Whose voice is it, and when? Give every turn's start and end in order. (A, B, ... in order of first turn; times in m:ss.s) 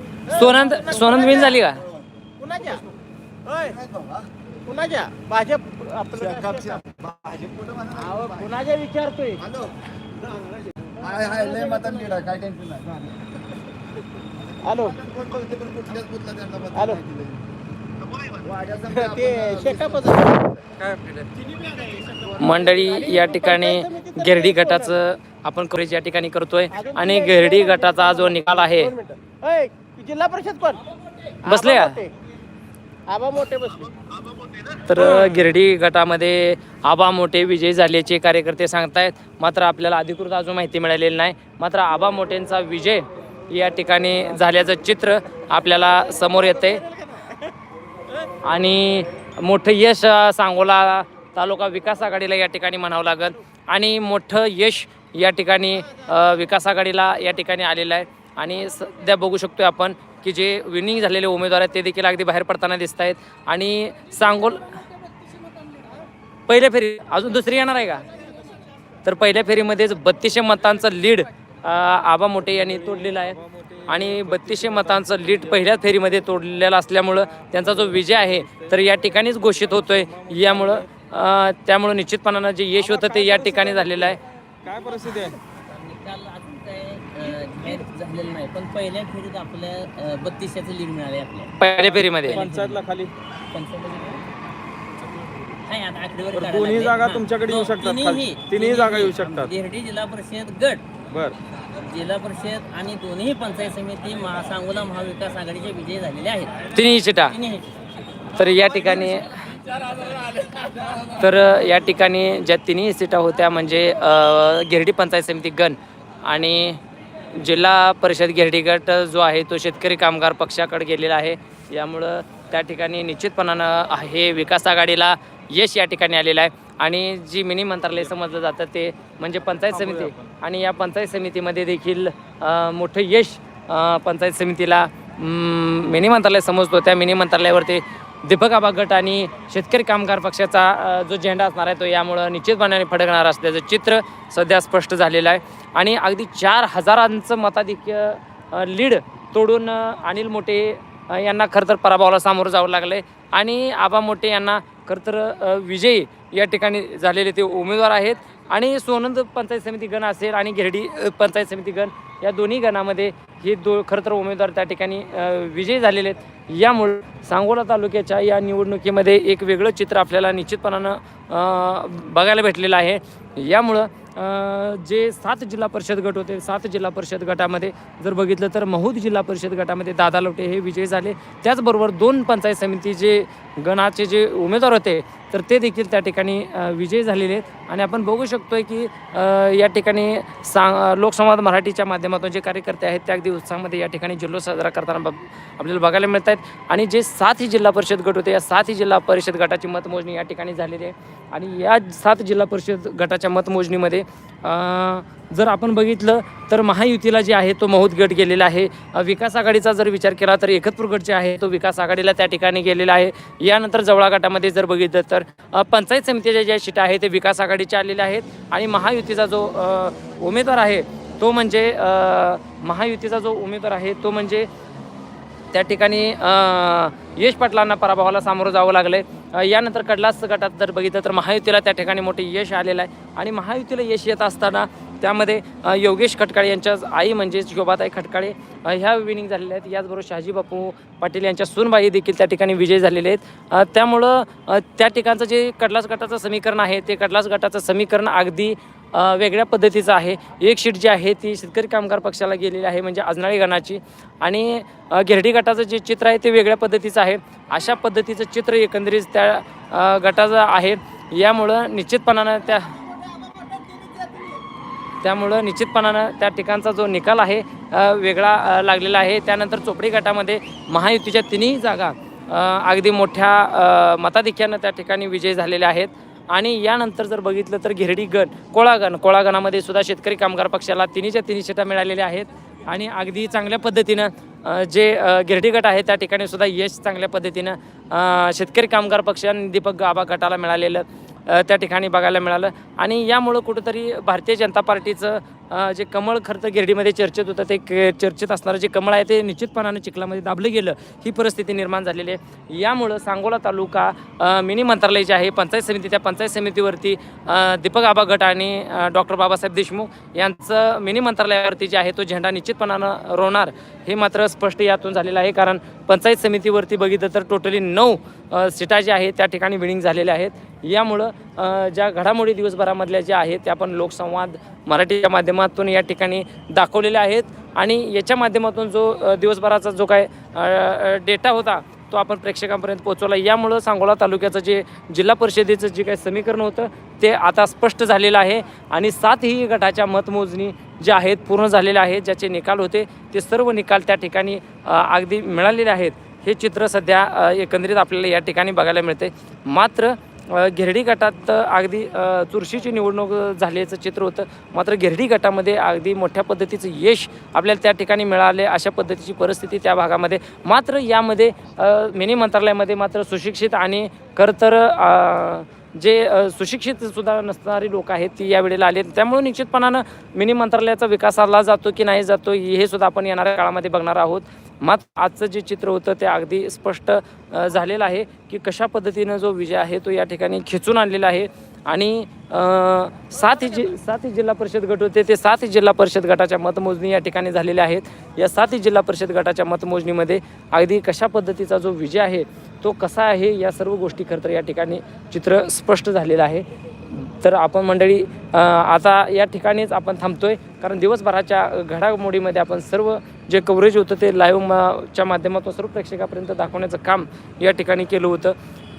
0:00.3-0:01.8 A
0:00.3-0:01.6 B
0:02.4-0:02.8 B
0:03.4-0:03.8 B
0:03.7-0:04.2 C
0:04.6-0:07.0 B
0:06.4-0:08.0 C
0:07.9-0:09.4 B
0:10.2-0:12.4 B
0:11.0-0:13.1 C
0:14.6-0:15.0 B
0:15.0-0:17.4 C
0:16.7-0:17.0 B
0:18.4-0:19.8 C
0:18.9-0:20.6 B
0:20.8-0:21.2 D
0:21.6-0:24.9 B
0:22.4-0:28.9 A
0:26.7-0:30.8 B
0:31.4-0:32.1 B
0:31.4-0:32.0 A
0:33.1-0:34.0 B
0:34.7-0:46.8 A
0:46.2-0:47.5 B
0:48.4-1:04.8 A
1:06.5-1:08.1 A
1:09.0-1:24.2 A
1:12.4-1:15.8 D
1:17.1-1:20.9 D
1:22.8-1:25.4 D
1:25.5-1:32.8 E
1:31.6-1:32.4 A
1:32.3-1:33.1 D
1:33.5-1:34.2 E
1:35.6-1:40.8 E
1:36.3-1:39.5 D
1:41.1-1:41.4 D
1:41.7-1:46.7 E
1:46.7-1:47.4 A
1:47.3-1:47.7 E
1:48.4-1:49.5 A
1:51.0-1:56.8 A
1:57.3-3:44.5 A
2:09.8-2:10.1 D
3:45.5-4:22.8 A
4:23.5-4:24.2 B
4:25.0-6:48.3 A